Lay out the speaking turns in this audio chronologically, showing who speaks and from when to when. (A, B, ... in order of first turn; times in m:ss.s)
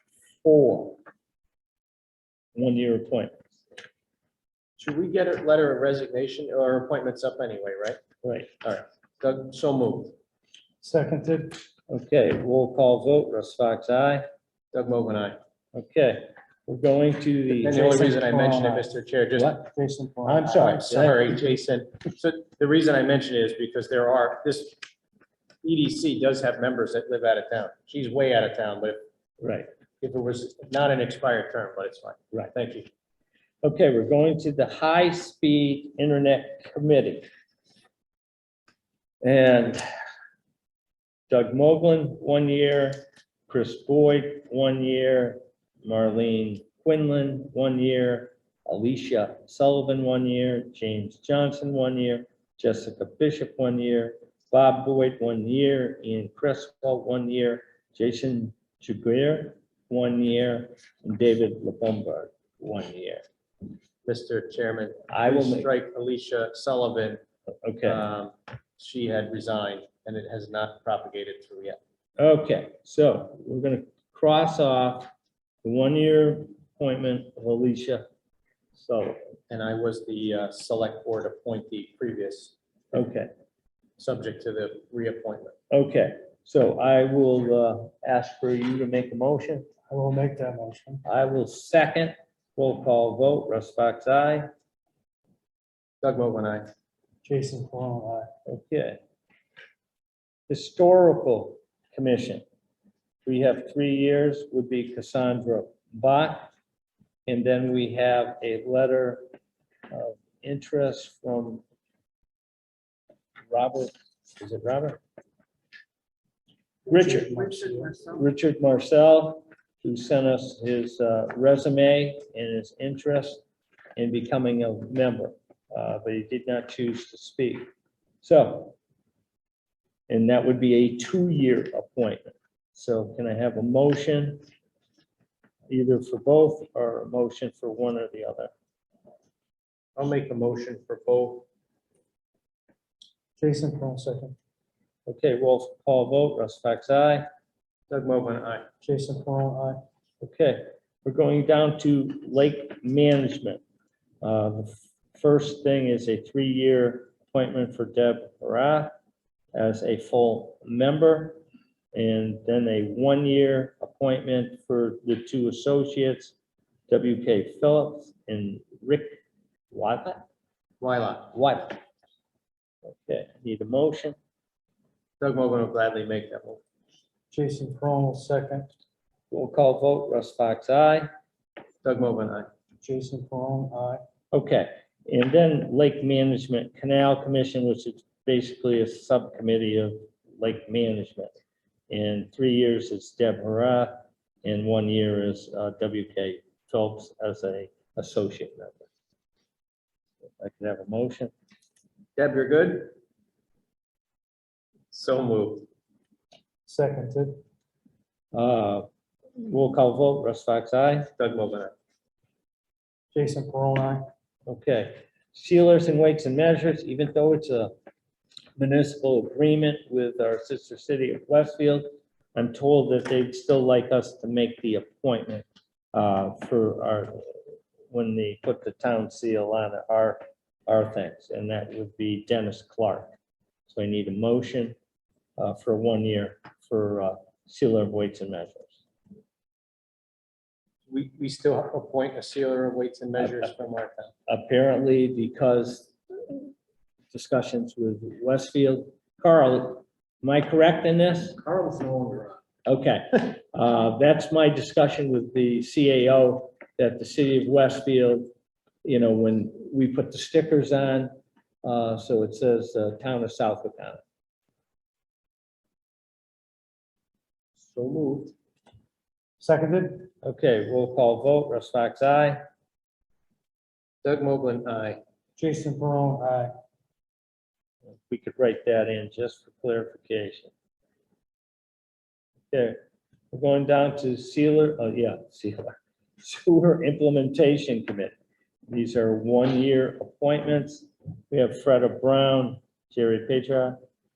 0:00.4-0:01.0 A
0:02.6-0:03.3 A
0:04.8-0:08.0 B
0:08.2-0:08.5 A
0:08.6-0:10.1 B
0:10.8-0:11.6 C
0:11.9-0:14.2 A
0:14.7-0:15.4 B
0:15.8-0:17.8 A
0:17.5-0:19.7 B
0:17.7-0:21.3 C
0:20.2-0:24.8 B
0:25.6-0:29.0 B
0:29.4-0:29.7 A
0:30.0-0:32.9 B
0:33.6-0:37.3 A
0:39.2-0:39.8 A
0:41.3-1:03.2 A
1:04.0-1:07.2 B
1:05.1-1:05.7 A
1:07.6-1:08.0 A
1:07.8-1:11.8 B
1:12.2-1:15.1 A
1:15.6-1:18.1 A
1:18.8-1:19.2 A
1:19.5-1:22.5 B
1:22.9-1:23.3 A
1:24.0-1:25.6 B
1:25.7-1:29.7 A
1:29.9-1:31.0 C
1:31.0-1:34.5 A
1:36.0-1:36.7 B
1:37.2-1:38.3 C
1:38.5-1:39.0 A
1:40.5-1:42.4 A
1:43.2-1:46.5 A
1:47.3-1:49.2 A
1:49.9-1:51.6 A
1:53.5-1:55.0 A
1:56.9-1:57.4 A
1:56.9-1:58.0 C
1:57.4-1:58.2 B
1:58.1-2:03.4 A
2:04.0-2:07.6 A
2:08.2-2:08.8 A
2:10.1-2:14.4 A
2:15.7-2:18.5 A
2:20.0-2:21.5 B
2:23.4-2:24.4 C
2:25.1-2:27.2 A
2:27.9-2:28.7 B
2:28.8-2:29.8 C
2:30.2-2:33.6 A
2:34.2-2:38.9 A
2:39.5-2:41.4 A
2:41.9-2:46.4 A
2:46.9-2:49.2 A
2:49.7-2:50.2 A
2:50.8-2:51.4 B
2:51.3-2:51.8 A
2:52.9-2:54.2 A
2:55.2-2:56.6 B
2:57.3-2:58.7 C
2:59.3-3:01.1 A
3:01.8-3:02.5 B
3:02.8-3:04.0 C
3:04.3-3:11.3 A
3:11.9-3:18.9 A
3:20.4-3:21.3 A
3:22.2-3:22.9 B
3:24.9-3:25.7 B
3:26.7-3:27.4 C
3:28.3-3:31.1 A
3:31.2-3:31.7 B
3:33.1-3:34.0 C
3:34.5-3:37.7 A
3:38.6-3:47.2 A
3:47.9-3:53.2 A
3:53.7-3:54.8 A
3:55.4-3:58.8 A
4:00.9-4:04.1 B
4:03.2-4:03.6 A
4:04.3-4:06.4 A
4:07.1-4:11.4 A
4:11.4-4:12.4 B
4:12.7-4:18.3 A
4:18.8-4:21.1 A
4:21.6-4:24.0 A
4:27.7-4:28.3 B
4:29.4-4:30.1 C
4:30.2-4:32.4 A
4:34.0-4:35.0 B
4:35.4-4:36.5 C
4:38.1-4:40.5 A
4:42.5-4:48.1 A
4:48.7-4:53.8 A